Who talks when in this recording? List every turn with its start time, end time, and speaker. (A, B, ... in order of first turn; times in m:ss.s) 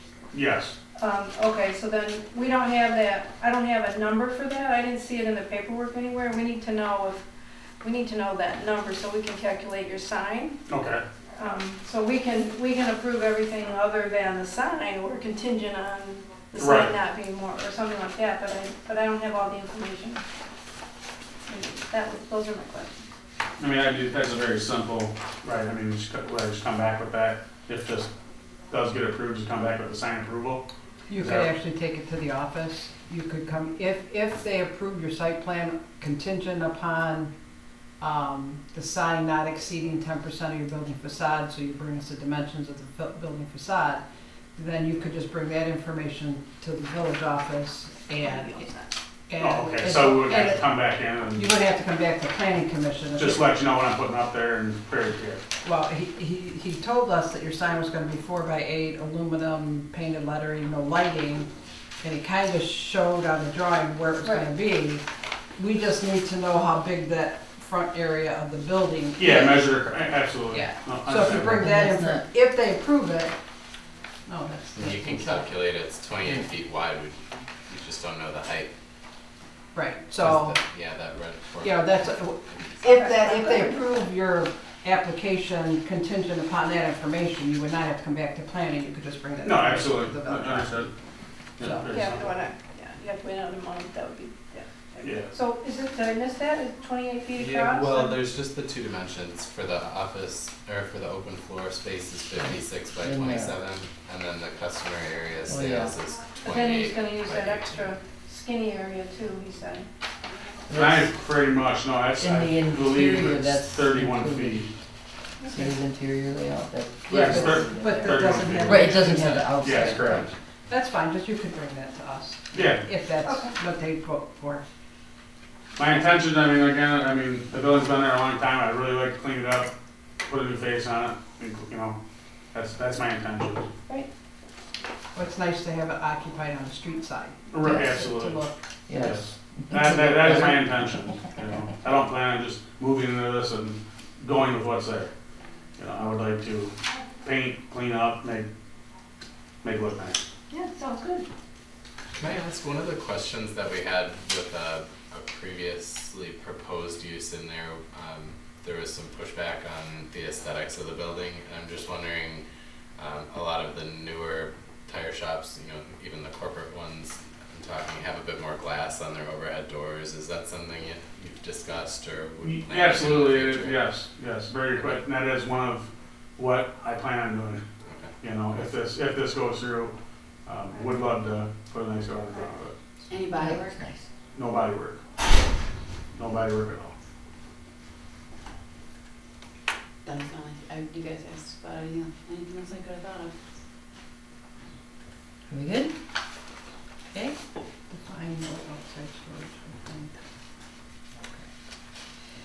0:00.3-0:00.7 A
0:01.0-0:07.2 B
0:07.8-0:10.6 B
0:10.7-0:11.0 A
0:11.4-0:20.2 B
0:16.6-0:16.9 A
0:21.5-0:23.1 B
0:23.6-0:28.1 A
0:28.7-0:30.6 A
0:31.1-0:37.3 C
0:31.2-0:31.5 A
0:38.0-0:48.7 C
0:48.2-0:48.9 B
0:49.3-0:53.6 C
0:49.4-0:51.5 A
0:53.1-0:55.4 A
0:55.6-1:09.8 C
1:04.2-1:04.5 B
1:09.2-1:11.6 A
1:10.5-1:13.4 C
1:11.4-1:12.2 D
1:14.2-1:15.5 C
1:14.8-1:18.7 E
1:19.7-1:20.6 C
1:20.2-1:22.8 E
1:21.6-1:30.8 C
1:22.8-1:23.8 B
1:29.4-1:30.9 A
1:31.6-1:32.3 A
1:31.6-1:32.0 C
1:31.8-1:38.2 B
1:35.0-1:35.3 A
1:37.4-1:47.8 E
1:43.0-1:43.6 D
1:45.5-1:45.9 D
1:46.4-1:49.9 B
1:50.7-1:51.1 D
1:50.7-1:54.7 A
1:52.2-1:54.6 D
1:55.4-2:00.3 D
1:57.1-1:59.0 A
1:57.1-2:04.6 C
1:58.7-1:59.5 E
1:59.6-2:00.3 A
2:02.5-2:02.9 A
2:03.2-2:03.5 B
2:05.8-2:09.7 A
2:10.2-2:12.0 A
2:12.5-2:13.7 A
2:15.1-2:19.1 C
2:17.5-2:25.1 A
2:18.9-2:21.1 D
2:25.8-2:28.5 A
2:29.6-2:30.2 A
2:30.5-2:31.3 B
2:32.1-2:42.4 E
2:43.0-2:53.8 E
2:52.4-2:57.6 A
2:57.8-2:58.1 E
2:58.2-2:59.9 A
3:00.4-3:02.7 A
3:03.1-3:03.8 F
3:03.3-3:04.1 D
3:04.3-3:05.0 A
3:06.1-3:06.9 A
3:10.0-3:13.4 F
3:15.5-3:15.9 D
3:17.1-3:17.4 D
3:17.9-3:20.2 C